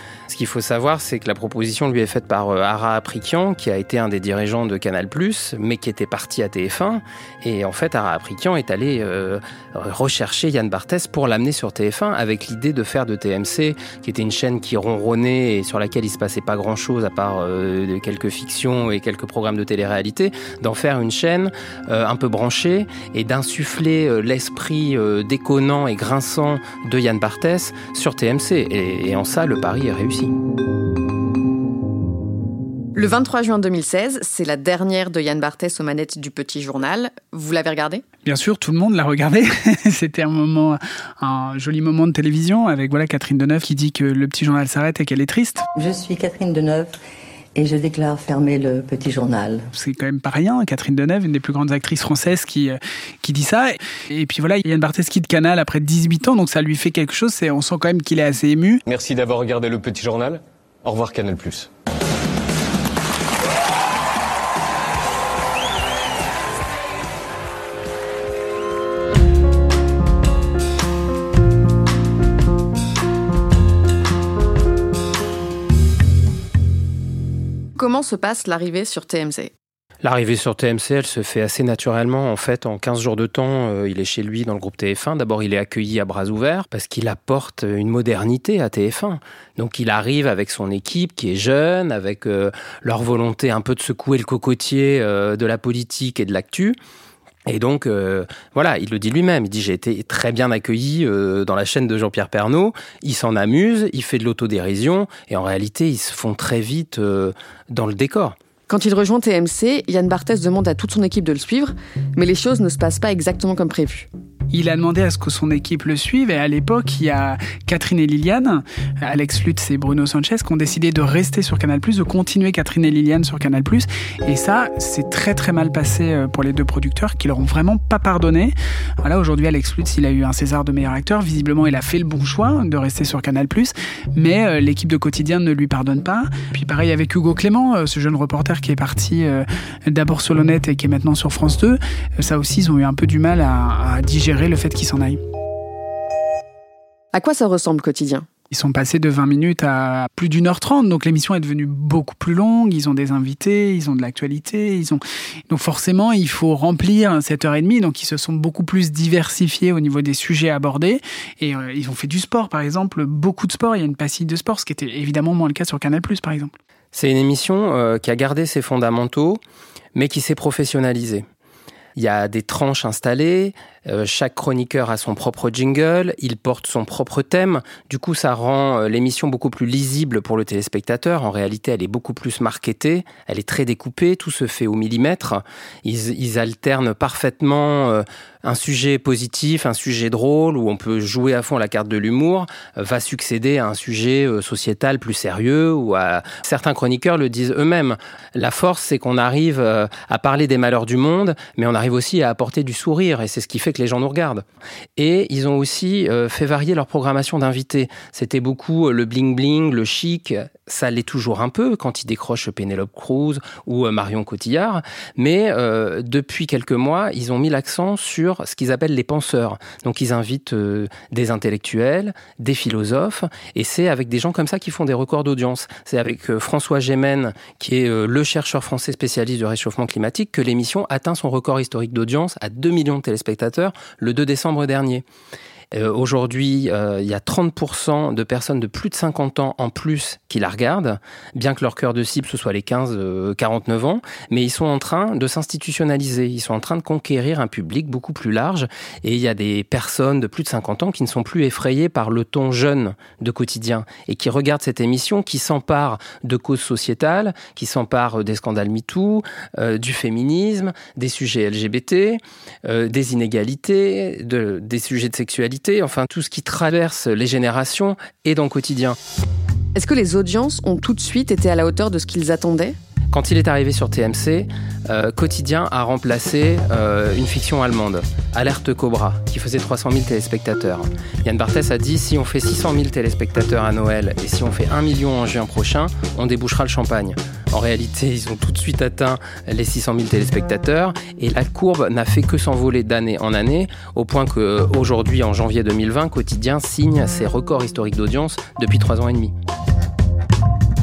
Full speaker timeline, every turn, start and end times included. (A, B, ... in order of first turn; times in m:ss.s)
0:00.3-0:30.3 A
0:33.0-0:38.0 B
0:38.2-0:45.6 C
0:45.8-0:46.9 D
0:47.6-0:49.7 D
0:49.7-0:58.8 C
0:58.9-1:01.7 E
1:17.8-1:19.5 B
1:20.0-1:36.8 A
1:37.5-1:48.4 A
1:48.7-1:54.1 B
1:54.5-2:25.2 C
2:27.1-2:28.3 B
2:28.5-2:46.5 C
2:46.9-2:49.4 A
2:50.0-2:51.3 A
2:52.0-3:24.4 A
3:25.0-3:55.0 A
3:55.7-4:29.0 A
4:29.8-4:32.8 B
4:33.1-4:59.3 A